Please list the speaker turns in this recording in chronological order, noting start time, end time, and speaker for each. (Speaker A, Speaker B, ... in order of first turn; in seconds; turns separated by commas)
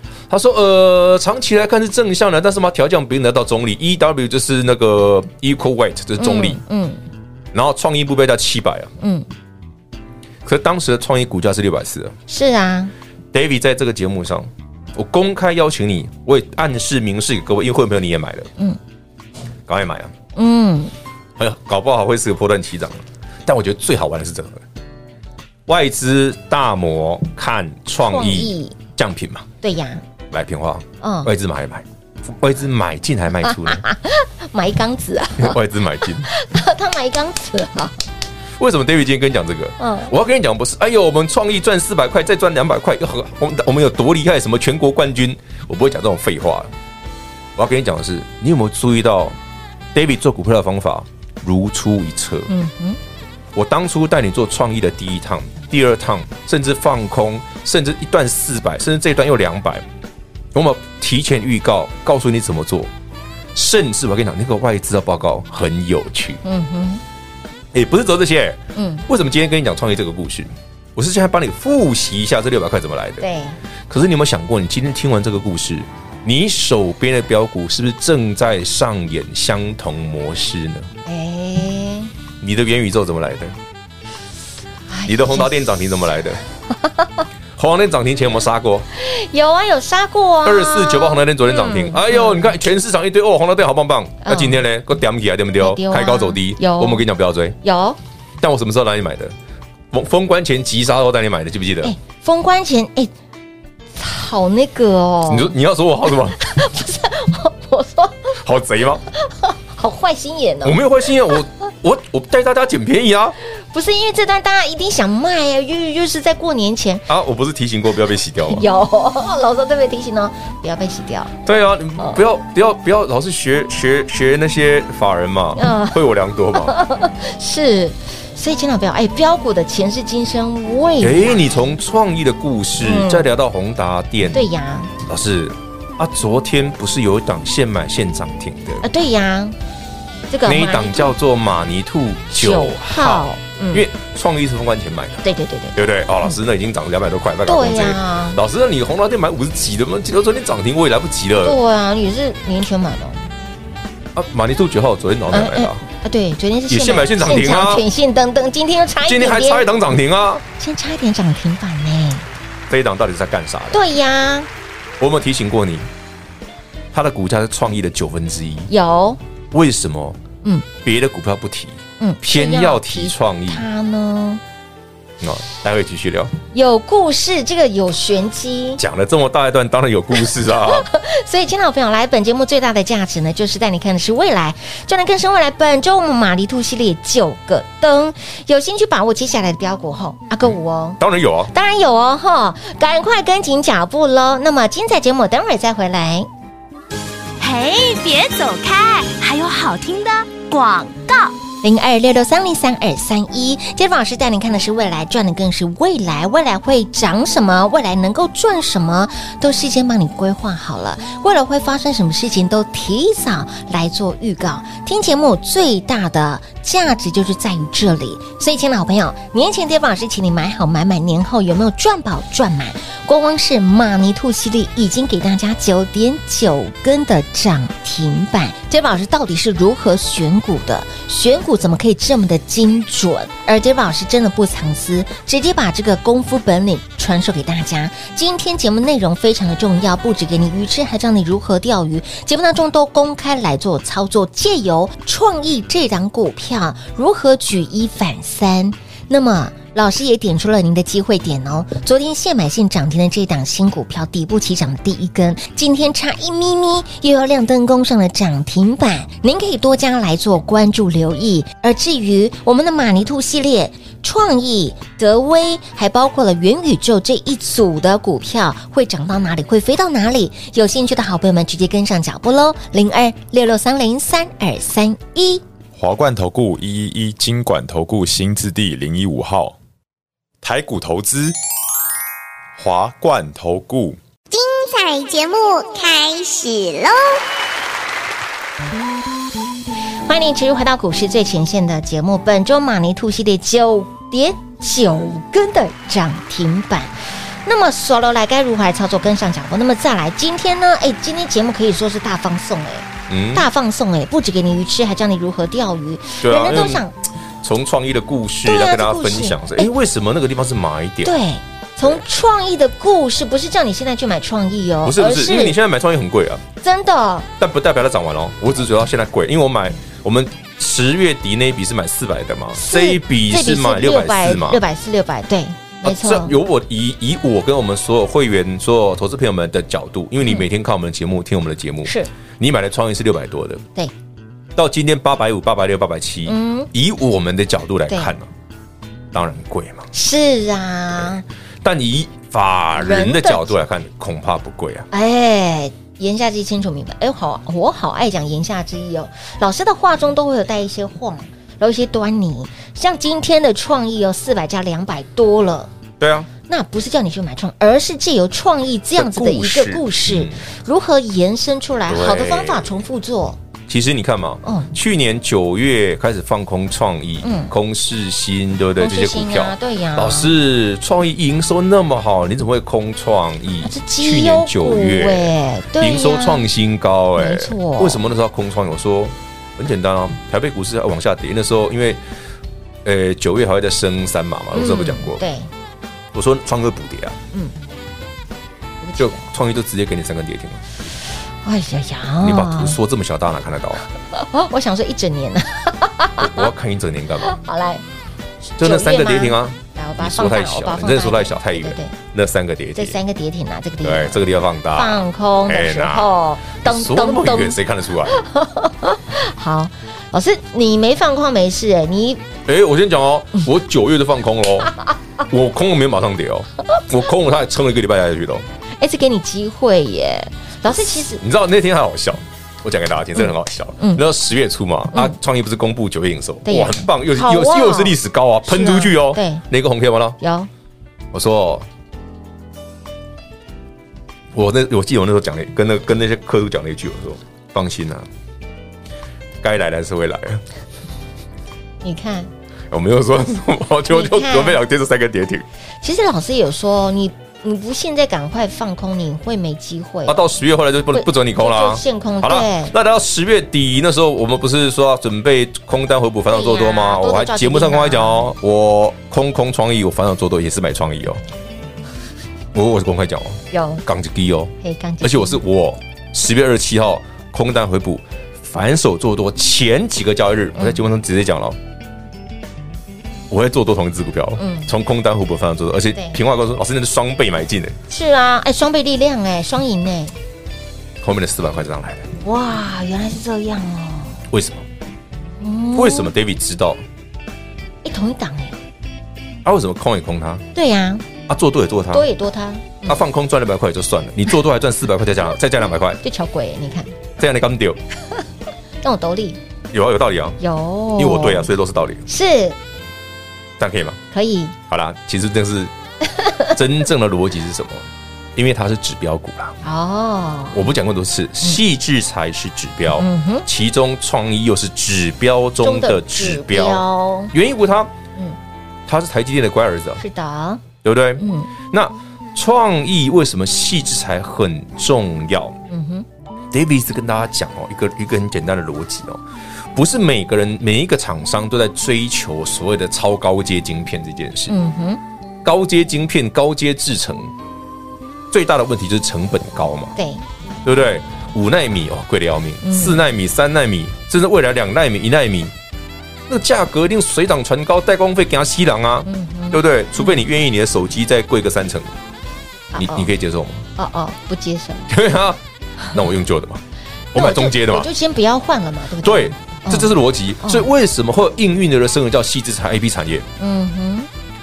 Speaker A: 0.3-6.6, Speaker B: 6.2-7.0, Speaker A: 7.5-8.9, Speaker B: 9.0-9.3, Speaker A: 10.4-12.2, Speaker B: 12.3-12.9, Speaker A: 13.3-18.5, Speaker A: 19.7-20.1, Speaker B: 20.4-20.9, Speaker A: 21.4-24.6, Speaker A: 25.7-29.5, Speaker B: 28.1-28.8, Speaker B: 29.6-30.0, Speaker A: 30.3-33.8, Speaker B: 31.0-31.3, Speaker B: 33.5-35.6, Speaker A: 35.4-36.3, Speaker B: 36.2-38.0, Speaker A: 38.6-46.7, Speaker B: 39.8-40.1, Speaker A: 47.6-49.4, Speaker A: 49.9-52.5, Speaker B: 52.5-53.0, Speaker A: 53.5-59.9, Speaker A: 60.5-62.9, Speaker A: 63.5-66.4, Speaker B: 66.4-67.0, Speaker A: 67.7-73.3, Speaker B: 68.8-69.0, Speaker B: 73.2-73.6, Speaker A: 73.9-80.9, Speaker B: 81.1-82.1, Speaker A: 82.4-83.6, Speaker B: 84.9-85.5, Speaker A: 85.1-86.4, Speaker A: 87.6-88.9, Speaker B: 89.0-92.5, Speaker A: 90.4-97.6, Speaker B: 94.2-94.6, Speaker B: 95.6-97.1, Speaker B: 97.6-98.0, Speaker A: 98.4-99.3, Speaker A: 99.9-101.9, Speaker B: 101.8-103.1, Speaker B: 104.0-105.5, Speaker A: 105.3-106.4, Speaker B: 106.1-108.4, Speaker A: 108.4-109.0, Speaker B: 109.2-111.3, Speaker A: 110.6-113.4, Speaker B: 113.5-117.1, Speaker A: 117.1-118.7, Speaker B: 118.5-121.3, Speaker A: 121.4-126.8, Speaker B: 125.6-126.0, Speaker B: 126.5-131.8, Speaker A: 131.0-134.5, Speaker B: 132.8-133.3, Speaker B: 134.3-134.9, Speaker A: 135.1-138.8, Speaker B: 138.8-139.6, Speaker B: 140.3-141.2, Speaker A: 140.4-151.6, Speaker B: 142.3-143.9, Speaker B: 145.2-146.4, Speaker B: 147.5-148.4, Speaker B: 151.4-153.3, Speaker A: 154.2-155.8, Speaker B: 155.3-159.7, Speaker A: 156.7-157.8, Speaker A: 159.0-160.4, Speaker B: 160.6-162.3, Speaker A: 162.7-163.9, Speaker B: 163.7-164.5, Speaker A: 165.0-165.9, Speaker A: 166.9-168.7, Speaker B: 168.7-169.2, Speaker A: 169.5-170.2, Speaker A: 170.8-173.7, Speaker B: 172.0-174.4, Speaker A: 175.2-176.3, Speaker B: 176.5-178.8, Speaker A: 178.8-180.9, Speaker B: 180.2-196.3, Speaker A: 191.0-191.5, Speaker C: 197.4-201.4, Speaker B: 201.6-275.4, Speaker D: 275.8-279.6, Speaker D: 280.4-281.4, Speaker D: 282.6-284.0, Speaker E: 284.3-287.2, Speaker B: 290.1-306.9, Speaker A: 303.1-303.5, Speaker A: 306.2-306.9, Speaker A: 307.4-311.2, Speaker B: 308.4-309.7, Speaker B: 311.0-315.6, Speaker A: 314.8-316.4, Speaker B: 316.6-317.3, Speaker A: 317.4-324.6, Speaker B: 322.6-326.4, Speaker A: 325.8-333.6, Speaker A: 334.6-338.3, Speaker B: 336.3-336.7, Speaker A: 339.1-339.9, Speaker B: 339.9-341.2, Speaker A: 341.6-344.9, Speaker B: 342.8-343.6, Speaker B: 344.9-355.7, Speaker A: 356.0-356.3, Speaker B: 356.5-363.4, Speaker A: 359.0-360.4, Speaker A: 361.9-362.7, Speaker A: 363.7-382.0, Speaker B: 364.4-364.7, Speaker B: 367.2-367.5, Speaker B: 368.8-370.3, Speaker B: 373.6-376.5, Speaker B: 377.2-378.0, Speaker A: 382.8-385.2, Speaker B: 384.5-385.5, Speaker A: 386.1-387.2, Speaker B: 388.8-389.3, Speaker A: 389.0-390.6, Speaker B: 391.4-392.8, Speaker A: 392.2-393.8, Speaker B: 394.1-396.5, Speaker A: 396.2-397.4, Speaker B: 397.2-397.8, Speaker B: 398.6-401.9, Speaker A: 398.6-403.0, Speaker B: 402.8-404.2, Speaker A: 403.8-408.2, Speaker B: 404.7-407.6, Speaker B: 408.1-412.2, Speaker A: 412.5-414.7, Speaker A: 415.2-418.5, Speaker B: 418.8-421.2, Speaker A: 421.2-430.2, Speaker B: 423.8-424.0, Speaker B: 426.4-429.4, Speaker B: 430.2-430.5, Speaker A: 431.1-431.7, Speaker A: 434.3-438.1, Speaker A: 439.4-440.4, Speaker B: 441.8-442.3, Speaker A: 442.7-445.5, Speaker B: 443.9-444.6, Speaker B: 445.8-450.2, Speaker A: 450.1-461.2, Speaker B: 450.9-452.7, Speaker B: 456.3-458.3, Speaker A: 462.5-471.6, Speaker B: 463.5-463.8, Speaker B: 464.6-465.4, Speaker B: 470.6-470.8, Speaker A: 473.3-477.8, Speaker B: 474.4-474.7, Speaker B: 477.9-480.1, Speaker A: 481.0-482.1, Speaker B: 482.2-484.2, Speaker A: 484.3-484.6, Speaker B: 485.4-486.1, Speaker A: 485.7-486.8, Speaker B: 487.8-488.6, Speaker A: 489.4-490.4, Speaker B: 490.6-491.1, Speaker A: 491.3-492.1, Speaker B: 491.9-493.0, Speaker A: 492.9-496.0, Speaker B: 496.0-496.9, Speaker A: 497.2-497.8, Speaker B: 498.8-499.4, Speaker A: 499.7-500.4, Speaker B: 500.4-501.5, Speaker A: 501.0-502.0, Speaker B: 502.1-502.6, Speaker A: 503.6-504.0, Speaker B: 504.1-504.6, Speaker A: 504.7-505.7, Speaker B: 506.1-506.5, Speaker A: 506.5-509.6, Speaker B: 509.6-510.8, Speaker A: 510.5-517.9, Speaker B: 513.0-513.5, Speaker B: 515.6-517.3, Speaker A: 518.9-520.0, Speaker B: 520.0-520.6, Speaker A: 520.8-525.6, Speaker B: 521.2-521.5, Speaker B: 525.7-526.0, Speaker A: 526.5-529.2, Speaker A: 529.7-534.5, Speaker B: 534.5-535.0, Speaker A: 535.4-537.3, Speaker A: 538.3-540.0, Speaker B: 540.0-540.2, Speaker A: 540.6-545.5, Speaker B: 542.6-543.0, Speaker A: 546.3-551.9, Speaker B: 549.1-550.2, Speaker B: 552.7-553.1, Speaker A: 552.8-553.7, Speaker B: 553.8-554.9, Speaker A: 554.9-555.4, Speaker A: 555.9-556.6, Speaker A: 557.1-557.9, Speaker B: 557.1-560.7, Speaker A: 559.0-563.3, Speaker B: 563.4-564.1